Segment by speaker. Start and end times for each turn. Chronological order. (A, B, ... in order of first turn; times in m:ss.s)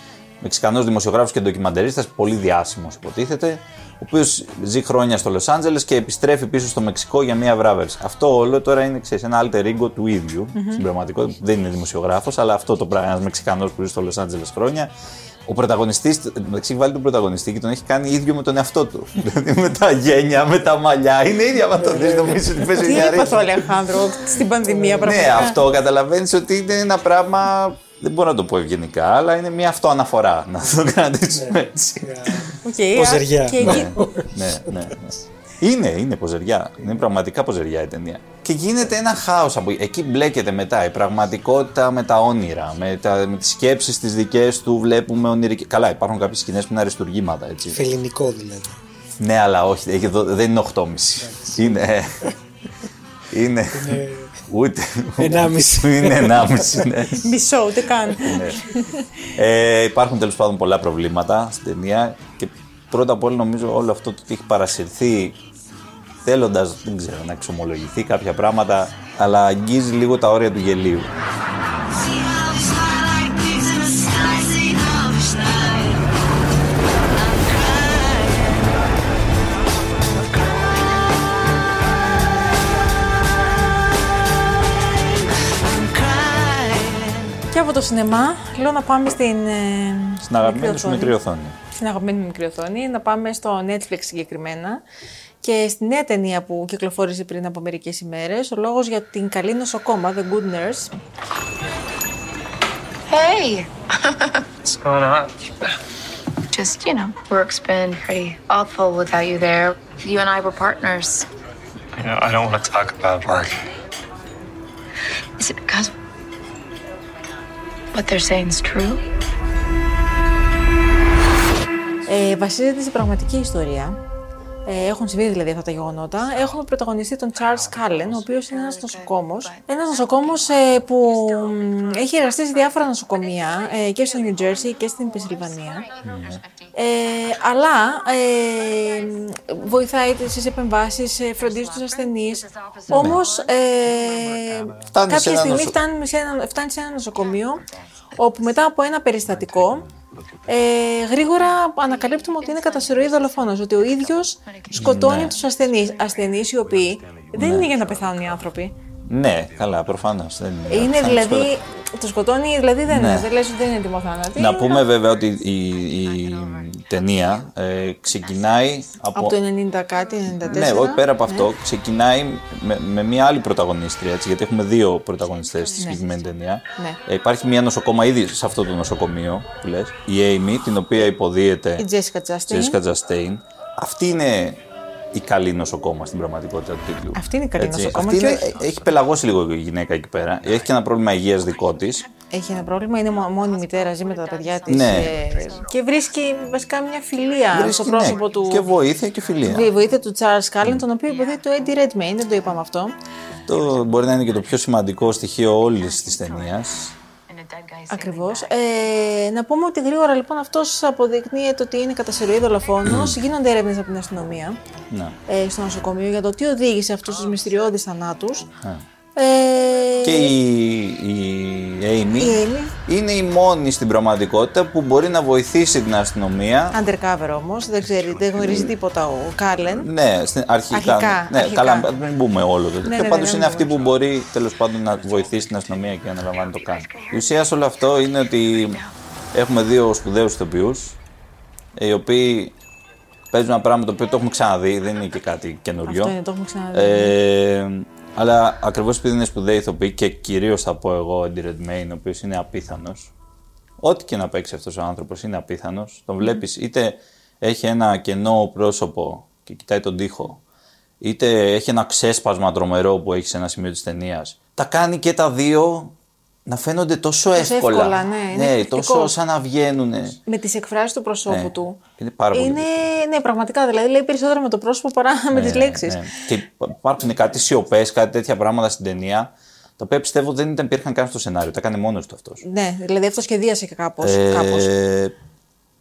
0:00.4-0:14.9 A
0:10.5-0:10.8 B
0:15.4-0:23.4 A
0:21.7-0:23.5 C
0:22.8-0:25.6 B
0:24.6-0:25.5 C
0:25.0-0:32.5 A
0:31.3-0:35.0 C
0:32.6-0:33.9 B
0:33.6-0:47.8 A
0:47.7-0:48.8 C
0:49.2-0:52.3 A
0:51.2-0:52.3 C
0:53.3-0:57.3 A
0:53.7-0:54.4 C
0:55.2-0:57.0 C
0:57.2-0:59.1 B
0:58.2-0:58.6 A
0:59.3-1:05.4 A
1:06.2-1:11.1 A
1:13.8-1:15.6 D
1:27.5-1:31.1 B
1:30.2-1:31.6 A
1:31.8-1:34.8 B
1:35.4-1:40.9 B
1:43.1-1:44.5 D
1:44.6-1:45.4 E
1:46.5-1:51.2 D
1:52.0-1:53.6 E
1:55.4-1:55.9 D
1:57.9-1:59.0 D
2:02.1-2:04.0 B
2:04.6-2:15.9 B
2:07.5-2:20.1 D
2:16.0-2:16.4 A
2:16.7-2:27.6 B
2:21.3-2:24.7 D
2:22.9-2:23.2 A
2:24.9-2:25.8 A
2:27.1-2:27.5 D
2:28.2-2:29.9 B
2:28.4-2:28.7 D
2:30.5-2:38.7 B
2:31.3-2:37.2 D
2:34.7-2:35.4 A
2:37.3-2:37.7 A
2:38.0-2:38.3 D
2:39.1-2:41.5 A
2:40.7-2:44.9 B
2:42.9-2:43.3 A
2:44.3-2:49.4 A
2:45.0-2:48.8 D
2:49.1-2:51.5 B
2:50.4-3:01.9 A
2:55.2-2:56.3 D
3:01.8-3:02.8 B
3:02.5-3:04.6 A
3:05.1-3:12.0 A
3:07.1-3:08.6 B
3:11.4-3:20.1 D
3:12.3-3:18.7 B
3:14.7-3:15.2 A
3:17.5-3:19.7 A
3:19.4-3:23.0 B
3:21.0-3:22.6 D
3:23.5-3:26.9 A
3:23.5-3:28.9 D
3:27.9-3:34.6 B
3:32.9-3:33.1 A
3:34.9-3:35.2 A
3:35.3-3:38.5 B
3:37.1-3:37.6 D
3:39.2-3:40.3 B
3:40.0-3:46.8 A
3:42.2-3:42.7 B
3:46.7-3:49.9 B
3:48.4-3:48.7 A
3:49.8-3:58.8 A
3:50.7-3:51.9 B
3:52.8-3:53.7 B
3:56.3-3:58.9 D
3:59.3-4:01.0 A
4:01.8-4:02.5 A
4:03.3-4:06.1 A
4:05.9-4:07.2 B
4:06.7-4:13.1 A
4:13.8-4:20.4 A
4:21.0-4:25.9 A
4:26.5-4:30.2 A
4:27.3-4:29.1 B
4:30.2-4:31.8 B
4:31.3-4:32.9 A
4:32.3-4:36.1 B
4:35.3-4:42.4 A
4:42.4-4:44.7 B
4:44.0-4:45.1 A